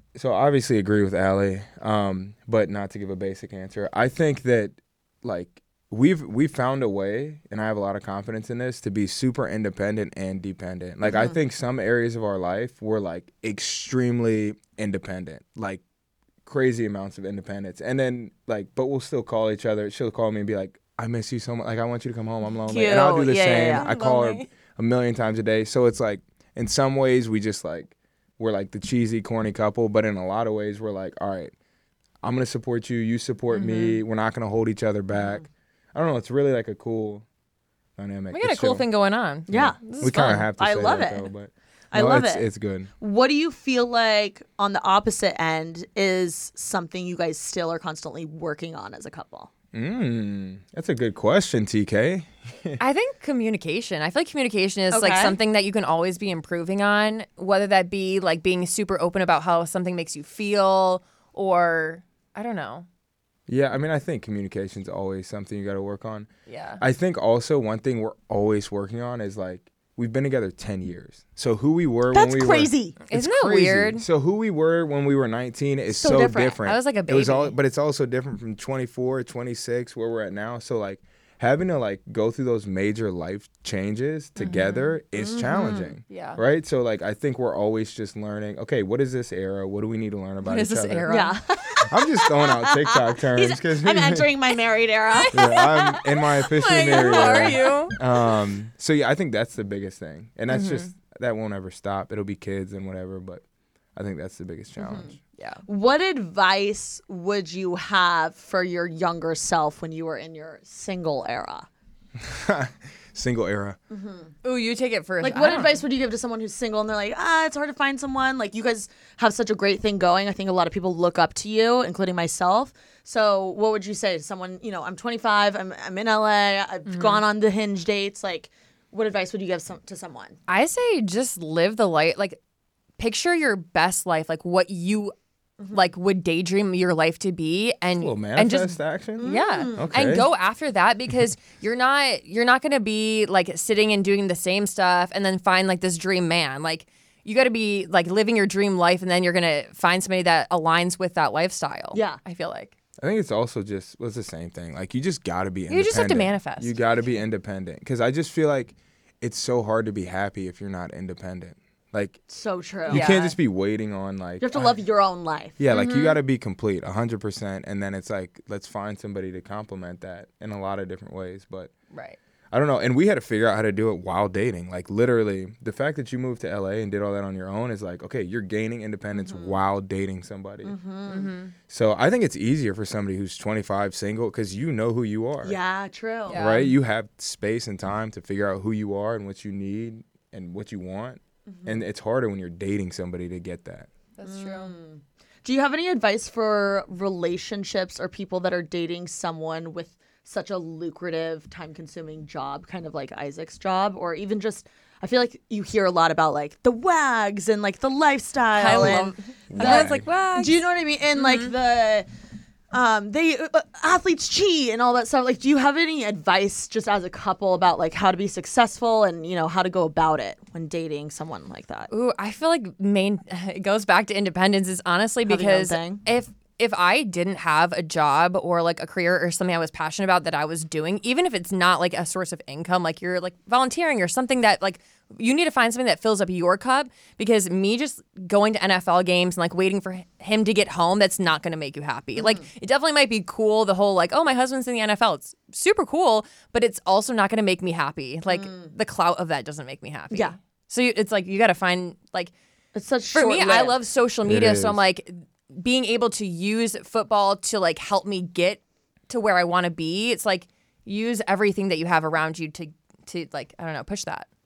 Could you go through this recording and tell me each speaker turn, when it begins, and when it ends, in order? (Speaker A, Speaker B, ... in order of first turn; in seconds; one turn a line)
Speaker A: 0.1-15.8
Speaker B: 11.0-11.3
Speaker A: 16.4-31.5
Speaker B: 22.7-23.9
Speaker C: 23.7-24.5
Speaker A: 32.2-37.2
Speaker C: 33.5-34.0
Speaker B: 35.1-35.4
Speaker A: 38.0-38.8
Speaker C: 38.3-40.5
Speaker B: 39.5-41.3
Speaker A: 39.5-42.9
Speaker B: 41.9-42.5
Speaker B: 43.0-49.5
Speaker A: 49.7-52.8
Speaker C: 52.8-62.9
Speaker B: 54.9-55.4
Speaker A: 63.5-91.1
Speaker C: 66.5-66.8
Speaker B: 72.1-73.0
Speaker C: 73.1-74.0
Speaker B: 75.9-76.6
Speaker C: 76.7-77.5
Speaker C: 84.4-84.9
Speaker B: 85.1-86.0
Speaker C: 86.1-86.4
Speaker C: 90.4-91.4
Speaker B: 91.1-95.7
Speaker A: 91.8-94.3
Speaker C: 95.1-97.9
Speaker A: 95.3-103.4
Speaker B: 96.9-98.0
Speaker C: 100.5-100.9
Speaker A: 104.0-105.2
Speaker B: 104.8-105.1
Speaker B: 105.7-111.7
Speaker A: 112.2-113.8
Speaker B: 113.9-114.3
Speaker C: 114.4-115.8
Speaker B: 115.2-130.4
Speaker C: 126.9-127.2
Speaker C: 130.5-132.4
Speaker C: 133.0-135.1
Speaker B: 135.6-135.9
Speaker C: 135.7-152.7
Speaker A: 137.9-140.2
Speaker B: 139.2-140.2
Speaker B: 151.9-152.2
Speaker A: 153.0-162.2
Speaker C: 155.7-156.8
Speaker B: 162.3-163.2
Speaker A: 162.9-164.7
Speaker C: 162.9-163.3
Speaker B: 164.4-165.6
Speaker A: 165.6-171.7
Speaker C: 165.7-166.2
Speaker C: 171.9-172.2
Speaker A: 172.5-180.7
Speaker B: 179.1-179.6
Speaker B: 180.6-181.3
Speaker C: 181.1-181.5
Speaker A: 181.7-185.6
Speaker B: 185.4-186.4
Speaker C: 186.3-186.7
Speaker A: 186.3-193.9
Speaker B: 191.5-191.8
Speaker C: 194.2-194.7
Speaker B: 194.2-212.1
Speaker C: 208.6-210.6
Speaker A: 208.7-210.1
Speaker C: 211.1-211.5
Speaker B: 212.7-221.9
Speaker C: 221.9-252.3
Speaker B: 225.2-226.0
Speaker B: 242.2-242.4
Speaker B: 248.3-248.7
Speaker B: 250.1-250.3
Speaker B: 252.7-253.8
Speaker C: 253.1-264.3
Speaker A: 254.2-254.8